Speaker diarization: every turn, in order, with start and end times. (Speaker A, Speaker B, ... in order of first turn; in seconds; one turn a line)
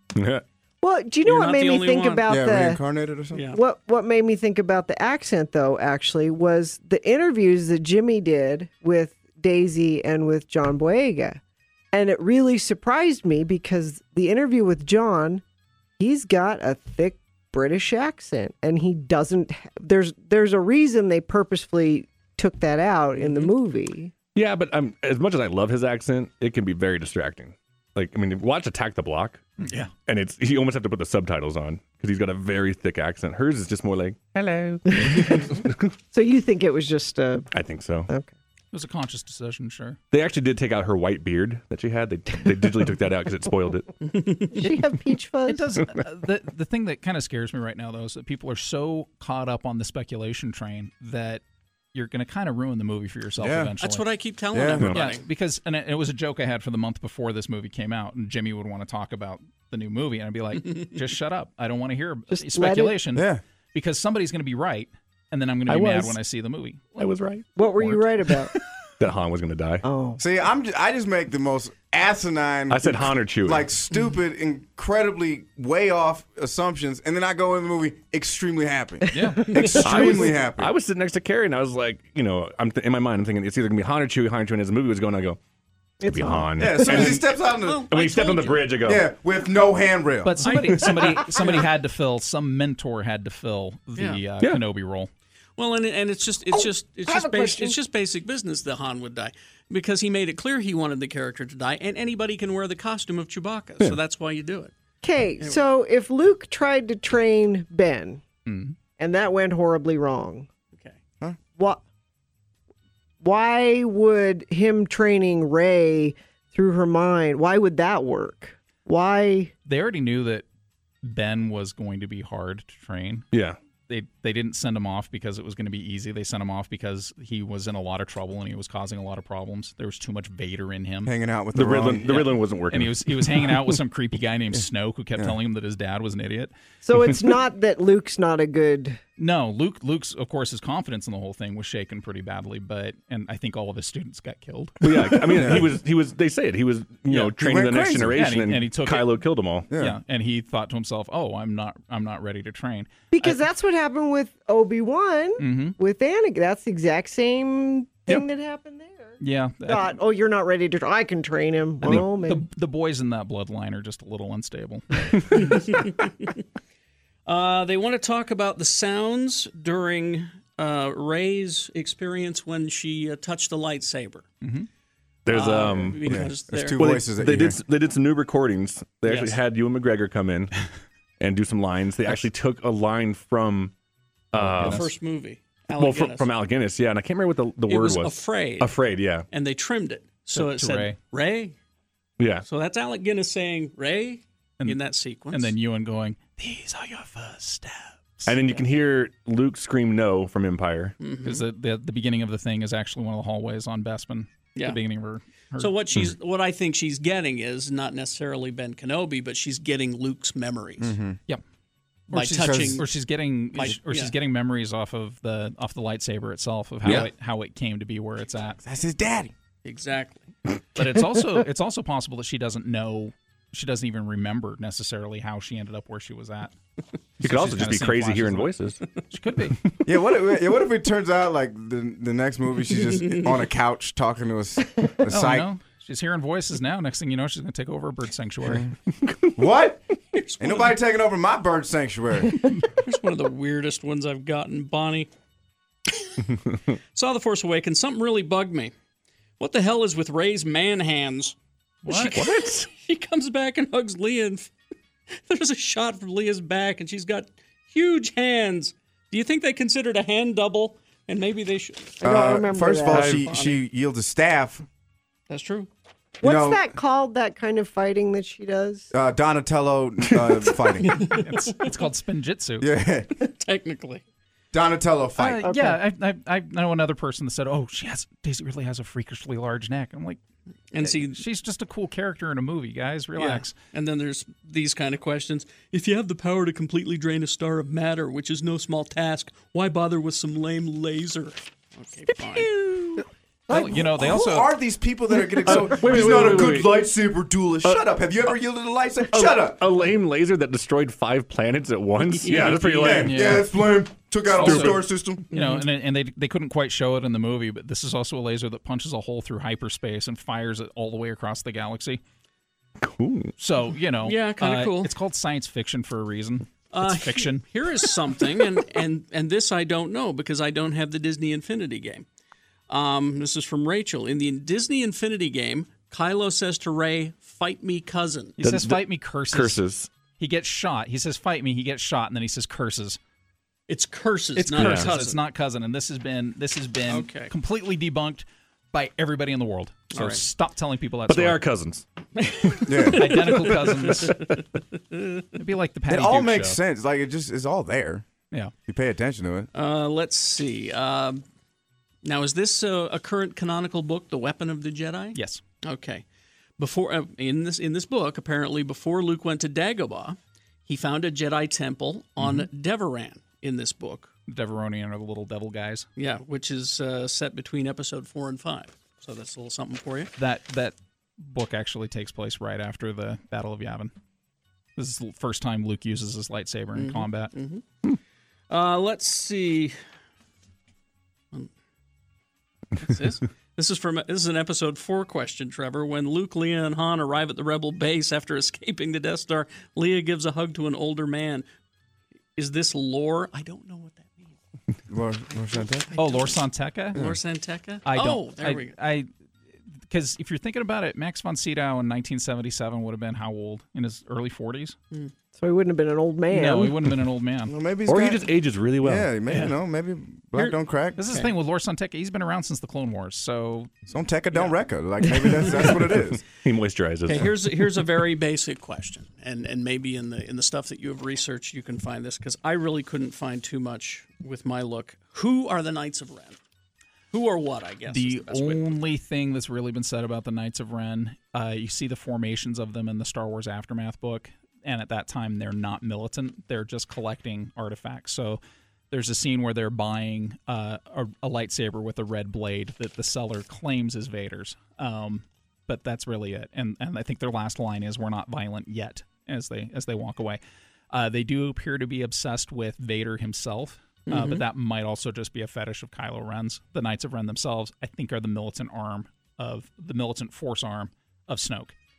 Speaker A: 0.1-0.4
Speaker B: 0.8-2.8
Speaker C: 1.2-2.3
Speaker D: 2.3-3.4
Speaker C: 3.3-3.6
Speaker B: 3.5-11.4
Speaker B: 11.9-15.4
Speaker B: 16.0-24.1
Speaker C: 23.2-23.4
Speaker A: 24.3-29.5
Speaker E: 29.6-29.9
Speaker A: 30.1-35.8
Speaker B: 34.9-35.5
Speaker B: 36.1-37.5
Speaker A: 37.5-38.1
Speaker B: 38.1-38.3
Speaker E: 38.7-40.0
Speaker A: 40.1-43.9
Speaker C: 44.0-44.6
Speaker B: 44.5-45.8
Speaker E: 45.5-51.4
Speaker E: 51.9-54.1
Speaker D: 53.4-53.7
Speaker C: 53.8-55.2
Speaker D: 54.5-54.9
Speaker E: 54.8-67.1
Speaker C: 60.6-61.0
Speaker B: 62.3-63.0
Speaker D: 63.1-63.4
Speaker A: 65.7-66.2
Speaker A: 67.0-68.0
Speaker B: 67.5-68.5
Speaker A: 69.0-69.8
Speaker B: 69.8-70.2
Speaker D: 70.2-80.7
Speaker A: 72.7-73.7
Speaker E: 79.1-79.5
Speaker B: 79.1-80.1
Speaker A: 79.8-85.4
Speaker B: 86.0-86.9
Speaker A: 86.0-87.2
Speaker D: 86.5-87.9
Speaker C: 86.9-88.7
Speaker A: 87.9-89.1
Speaker D: 88.8-90.4
Speaker E: 90.2-95.1
Speaker C: 90.4-91.6
Speaker C: 95.6-104.7
Speaker B: 96.5-97.7
Speaker B: 105.0-108.2
Speaker E: 108.5-108.8
Speaker B: 109.0-110.5
Speaker B: 111.5-111.8
Speaker B: 113.2-119.5
Speaker E: 119.6-120.5
Speaker E: 121.0-123.3
Speaker A: 123.3-123.6
Speaker E: 123.9-131.1
Speaker D: 131.1-132.2
Speaker A: 131.5-133.7
Speaker E: 132.0-136.5
Speaker B: 136.8-139.0
Speaker E: 139.2-145.4
Speaker A: 144.8-149.7
Speaker D: 145.1-145.7
Speaker E: 147.1-147.5
Speaker D: 147.4-148.2
Speaker E: 148.1-149.2
Speaker D: 149.7-150.0
Speaker E: 149.7-153.4
Speaker B: 153.1-162.4
Speaker E: 155.4-155.8
Speaker E: 159.2-159.9
Speaker E: 161.8-165.7
Speaker C: 165.3-166.4
Speaker C: 167.3-174.3
Speaker E: 174.4-174.7
Speaker A: 175.3-176.2
Speaker C: 175.3-176.8
Speaker D: 176.1-177.6
Speaker A: 176.7-180.5
Speaker C: 179.1-179.4
Speaker A: 181.2-183.7
Speaker A: 184.3-184.9
Speaker E: 184.4-184.8
Speaker C: 184.6-186.3
Speaker A: 185.8-189.3
Speaker C: 187.7-188.8
Speaker C: 189.3-191.6
Speaker E: 190.3-191.0
Speaker C: 192.4-195.5
Speaker E: 195.3-198.4
Speaker A: 198.3-200.9
Speaker C: 201.0-201.4
Speaker E: 201.2-205.8
Speaker C: 204.6-204.8
Speaker C: 205.6-210.9
Speaker D: 210.8-211.2
Speaker C: 212.1-212.9
Speaker E: 212.1-218.6
Speaker D: 212.4-212.8
Speaker C: 213.5-214.1
Speaker A: 216.8-217.1
Speaker D: 218.6-219.3
Speaker C: 219.6-220.3
Speaker E: 220.8-226.5
Speaker A: 227.2-228.8
Speaker E: 227.2-228.6
Speaker E: 229.1-229.6
Speaker D: 229.8-235.5
Speaker C: 232.9-233.3
Speaker E: 235.1-238.7
Speaker D: 238.4-238.7
Speaker D: 239.3-239.8
Speaker C: 240.1-240.8
Speaker D: 240.4-242.4
Speaker C: 242.8-245.1
Speaker C: 246.9-248.7
Speaker C: 249.4-251.3
Speaker E: 251.9-252.2
Speaker C: 251.9-254.5
Speaker A: 252.1-252.7
Speaker C: 255.3-262.0
Speaker B: 262.0-263.2
Speaker D: 262.0-264.6
Speaker C: 262.9-263.5
Speaker C: 265.3-265.7
Speaker B: 266.2-268.9
Speaker D: 266.2-266.6
Speaker D: 268.9-271.1
Speaker C: 270.8-271.7
Speaker E: 271.1-272.7
Speaker D: 272.6-273.1
Speaker C: 273.2-274.0
Speaker D: 274.5-275.6
Speaker E: 275.1-280.2
Speaker B: 275.4-275.8
Speaker C: 280.7-281.2
Speaker E: 280.8-283.5
Speaker C: 283.1-292.6
Speaker E: 293.5-294.5
Speaker D: 293.5-299.6
Speaker A: 295.4-296.8
Speaker A: 299.1-303.2
Speaker C: 302.1-303.1
Speaker D: 302.7-305.2
Speaker E: 302.9-303.6
Speaker E: 304.3-312.0
Speaker A: 304.4-304.7
Speaker C: 305.3-305.6
Speaker A: 312.8-313.3
Speaker E: 313.4-317.4
Speaker C: 314.1-314.9
Speaker C: 316.7-322.1
Speaker C: 322.7-328.4
Speaker E: 328.4-329.6
Speaker A: 328.4-329.9
Speaker E: 330.2-333.0
Speaker C: 333.7-335.2
Speaker E: 334.4-341.5
Speaker A: 334.6-334.9
Speaker C: 336.9-337.3
Speaker C: 339.9-340.2
Speaker A: 341.1-341.9
Speaker C: 342.2-344.3
Speaker D: 342.7-343.1
Speaker E: 342.9-344.2
Speaker E: 345.4-346.6
Speaker D: 345.9-348.1
Speaker D: 348.6-349.5
Speaker C: 349.5-351.2
Speaker C: 352.0-356.1
Speaker E: 355.1-355.4
Speaker C: 356.6-364.1
Speaker E: 362.2-362.5
Speaker E: 364.3-365.9
Speaker C: 365.9-370.1
Speaker E: 370.2-373.9
Speaker E: 374.8-377.3
Speaker C: 376.7-377.6
Speaker C: 378.5-379.7
Speaker C: 382.8-391.4
Speaker C: 392.4-394.3
Speaker D: 394.9-395.9
Speaker C: 395.4-396.4
Speaker E: 395.9-397.0
Speaker C: 396.9-398.8
Speaker E: 397.9-399.1
Speaker E: 399.8-404.8
Speaker B: 405.4-406.9
Speaker E: 406.3-407.5
Speaker D: 407.4-408.3
Speaker A: 407.9-409.1
Speaker D: 408.8-411.0
Speaker C: 410.4-411.3
Speaker E: 411.0-413.8
Speaker D: 413.9-416.2
Speaker C: 415.4-415.7
Speaker A: 416.4-417.4
Speaker C: 417.1-426.4
Speaker C: 427.1-428.8
Speaker E: 427.9-450.4
Speaker E: 450.9-461.7
Speaker C: 454.1-454.4